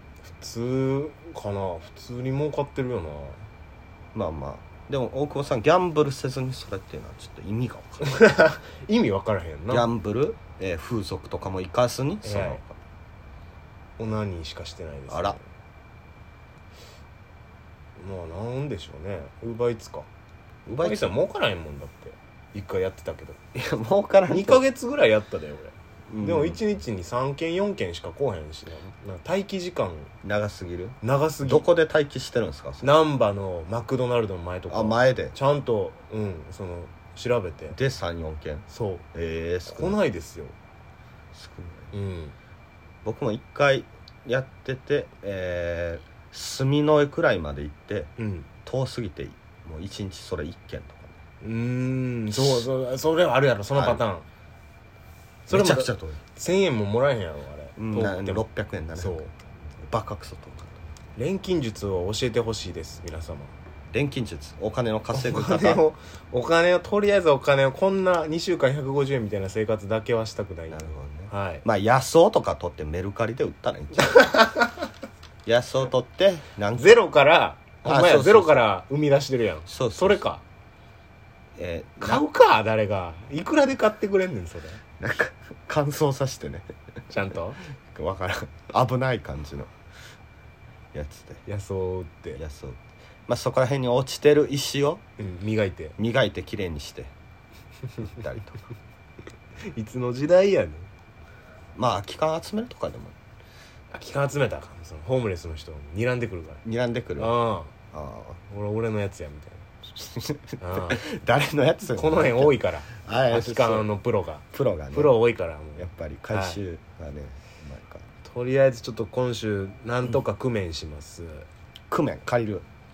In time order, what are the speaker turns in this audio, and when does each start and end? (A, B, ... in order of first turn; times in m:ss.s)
0:00.2-0:03.4 A
0:04.1-0:08.2 B
0:08.0-0:09.9 A
0:09.7-0:12.8 B
0:12.2-0:12.6 A
0:14.0-0:15.5 A
0:15.1-0:15.4 B
0:18.0-0:20.1 A
0:20.6-0:21.2 B
0:20.8-0:23.4 A
0:23.5-0:24.6 B
0:24.3-0:30.1 A
0:26.1-0:26.6 B
0:30.2-0:32.9 B
0:31.0-0:31.6 A
0:32.8-0:37.8 A
0:34.7-0:35.3 B
0:37.7-0:40.0 B
0:38.7-0:39.0 A
0:39.7-0:40.5 A
0:41.3-0:41.9 B
0:41.9-0:42.3 A
0:43.0-0:48.1 B
0:48.2-0:48.5 A
0:48.6-0:51.2 B
0:51.4-0:54.2 A
0:52.3-0:52.7 B
0:53.7-0:54.0 B
0:55.5-0:58.4 A
0:55.5-0:56.2 B
0:57.8-0:59.3 B
0:59.0-0:59.3 A
0:59.8-1:00.8 B
1:01.2-1:03.5 A
1:03.9-1:05.8 B
1:05.1-1:11.6 A
1:10.7-1:14.3 B
1:14.0-1:14.8 A
1:15.4-1:17.0 B
1:16.8-1:20.4 A
1:17.8-1:18.6 B
1:19.7-1:20.2 B
1:21.6-1:22.2 B
1:22.0-1:24.8 A
1:25.0-1:26.7 B
1:27.1-1:27.6 A
1:27.8-1:29.7 B
1:30.9-1:31.4 B
1:31.4-1:32.4 A
1:32.3-1:35.0 B
1:35.2-1:35.9 A
1:36.0-1:37.1 B
1:38.0-1:38.6 B
1:39.7-1:40.9 A
1:41.7-1:43.1 B
1:43.9-1:46.6 A
1:46.6-1:47.4 B
1:47.2-1:47.7 A
1:47.9-1:48.4 B
1:48.5-1:49.7 A
1:50.0-1:53.9 B
1:50.6-1:51.0 A
1:51.9-1:56.6 A
1:54.5-1:55.2 B
1:55.8-1:58.0 B
1:58.2-2:01.5 A
2:01.9-2:02.6 B